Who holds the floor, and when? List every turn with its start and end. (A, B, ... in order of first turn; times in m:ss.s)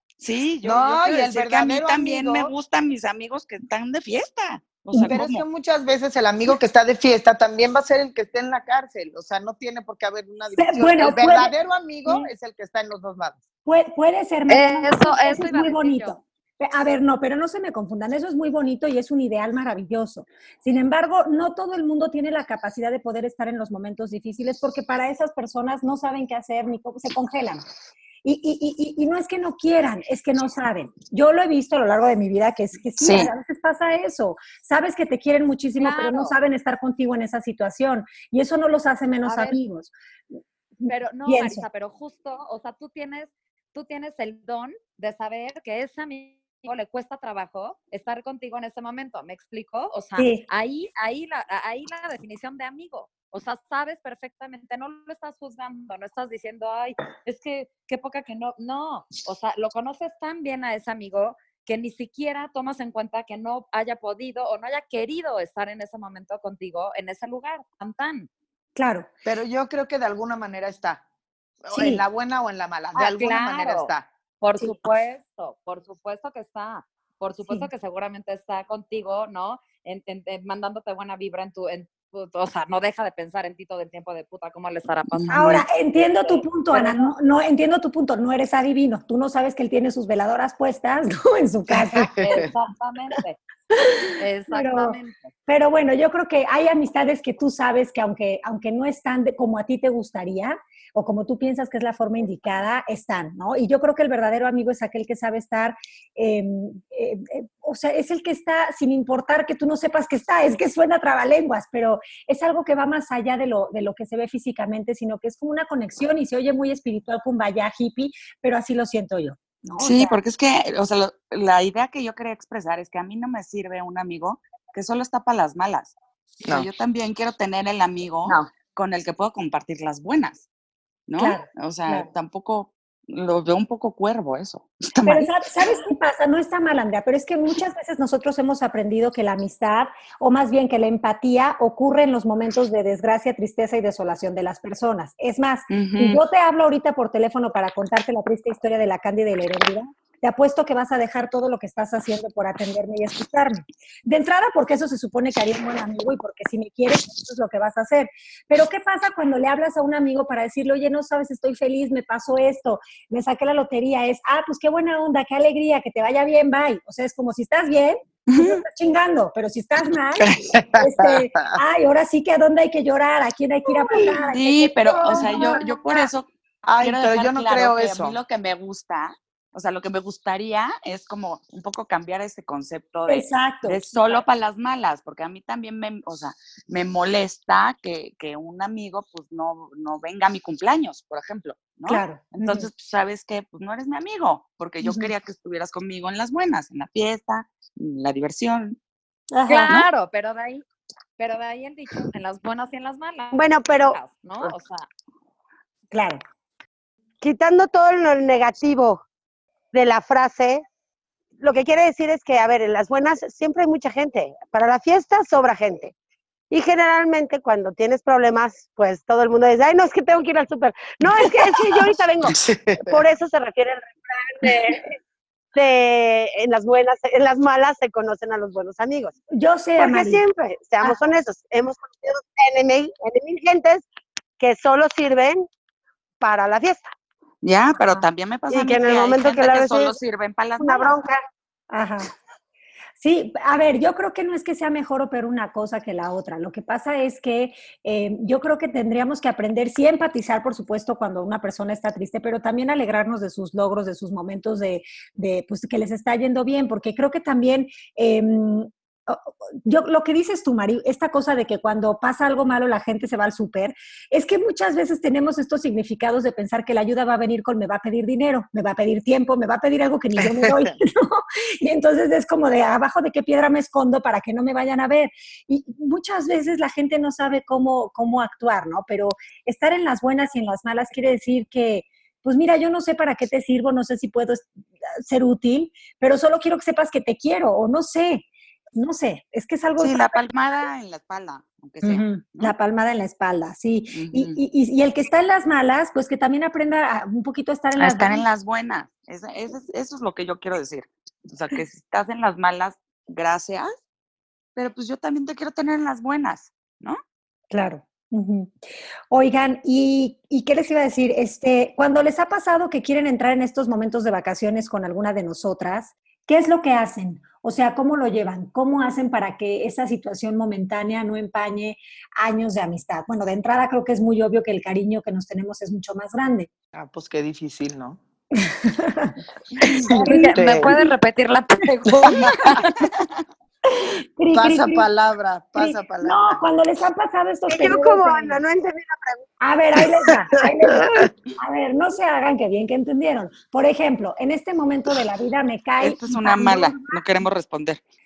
0:00.2-0:05.4 A
0:00.6-0:02.5 B
0:05.0-0:13.4 B
0:10.5-0:11.5 C
0:12.0-0:12.3 C
0:13.6-0:27.6 C
0:14.5-0:16.2 D
0:28.2-0:39.9 C
0:33.0-0:33.3 A
0:35.8-0:36.4 D
0:39.2-0:39.6 D
0:40.8-0:41.6 C
0:40.9-1:08.3 D
0:50.2-0:50.4 C
1:08.8-1:09.1 C
1:09.2-1:11.0 B
1:11.6-1:14.1 B
1:11.7-1:12.0 C
1:12.9-1:27.1 D
1:25.3-1:32.5 C
1:31.8-1:32.4 B
1:32.2-1:33.4 D
1:33.8-2:00.2 C
1:34.2-1:35.3 D
1:59.8-2:10.4 A
2:11.1-2:15.3 A
2:11.2-2:12.1 C
2:15.0-2:55.8 C
2:25.7-2:26.2 A
2:50.2-2:51.6 B
2:54.3-2:56.3 A
2:56.6-2:58.2 B
2:56.8-3:18.8 A
3:03.1-3:04.2 C
3:11.8-3:12.7 C
3:14.8-3:15.1 C
3:19.3-3:19.9 C
3:19.5-3:20.6 D
3:21.2-3:24.9 D
3:23.3-3:24.5 E
3:25.9-3:26.2 C
3:27.2-3:29.0 E
3:29.7-3:30.6 E
3:31.4-3:35.9 E
3:36.5-3:44.9 E
3:42.3-3:43.0 B
3:45.5-3:49.2 E
3:49.3-3:50.2 C
3:49.8-3:53.8 E
3:54.4-3:55.4 E
3:56.2-3:56.8 E
3:57.4-4:01.0 A
3:57.8-3:58.0 C
3:58.5-4:00.0 E
4:00.6-4:01.2 E
4:01.7-4:02.1 C
4:03.0-4:50.3 C
4:30.2-4:30.6 B
4:49.8-4:52.5 A
4:51.8-4:58.2 C
4:53.9-4:54.4 A
4:57.8-5:03.7 A
5:04.6-5:07.0 A
5:07.5-5:08.5 C
5:09.1-5:26.5 C
5:26.7-5:28.0 B
5:28.4-5:29.2 C
5:29.8-5:30.8 C
5:29.9-5:30.7 B
5:29.9-5:32.7 D
5:33.7-5:34.9 C
5:34.3-5:36.4 B
5:35.5-5:38.4 C
5:37.5-5:39.3 E
5:39.4-5:47.0 C
5:45.8-5:47.8 A